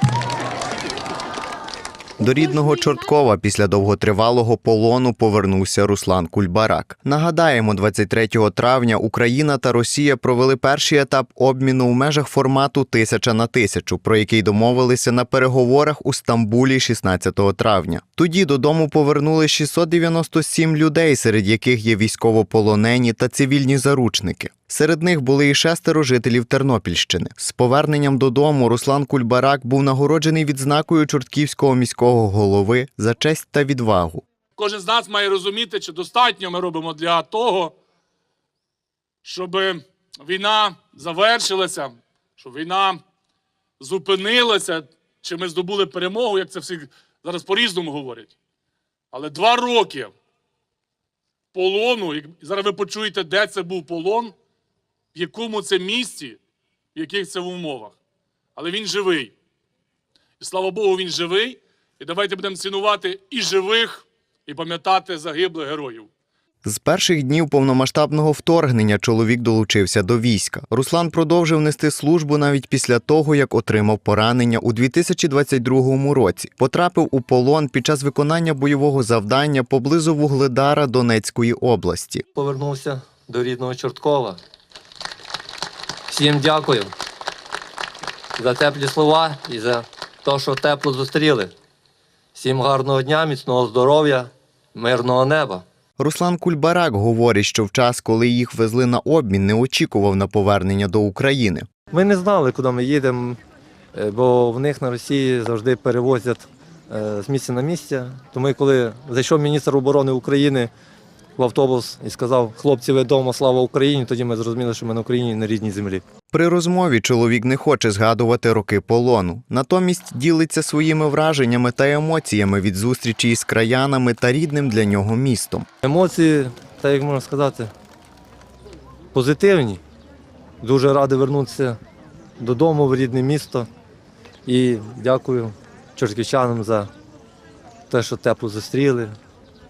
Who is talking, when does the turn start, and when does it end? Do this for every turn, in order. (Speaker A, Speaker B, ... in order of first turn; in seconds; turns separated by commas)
Speaker A: 2.2-34.2, Speaker B: 34.6-37.7, Speaker B: 39.2-43.0, Speaker B: 43.8-48.3, Speaker B: 49.1-50.1, Speaker B: 51.5-54.3, Speaker B: 55.1-56.4, Speaker B: 57.0-57.9, Speaker B: 58.5-59.3, Speaker B: 60.4-66.1, Speaker A: 66.6-82.2, Speaker C: 82.3-84.4, Speaker C: 86.1-86.9, Speaker C: 88.4-91.5, Speaker C: 92.3-95.6, Speaker A: 96.0-101.7, Speaker C: 101.9-103.4, Speaker C: 103.9-110.7, Speaker C: 111.4-116.0, Speaker A: 116.3-125.7, Speaker C: 125.8-127.7, Speaker C: 129.1-129.8, Speaker C: 130.6-131.8, Speaker C: 132.4-133.7, Speaker C: 134.4-136.9, Speaker C: 137.9-139.2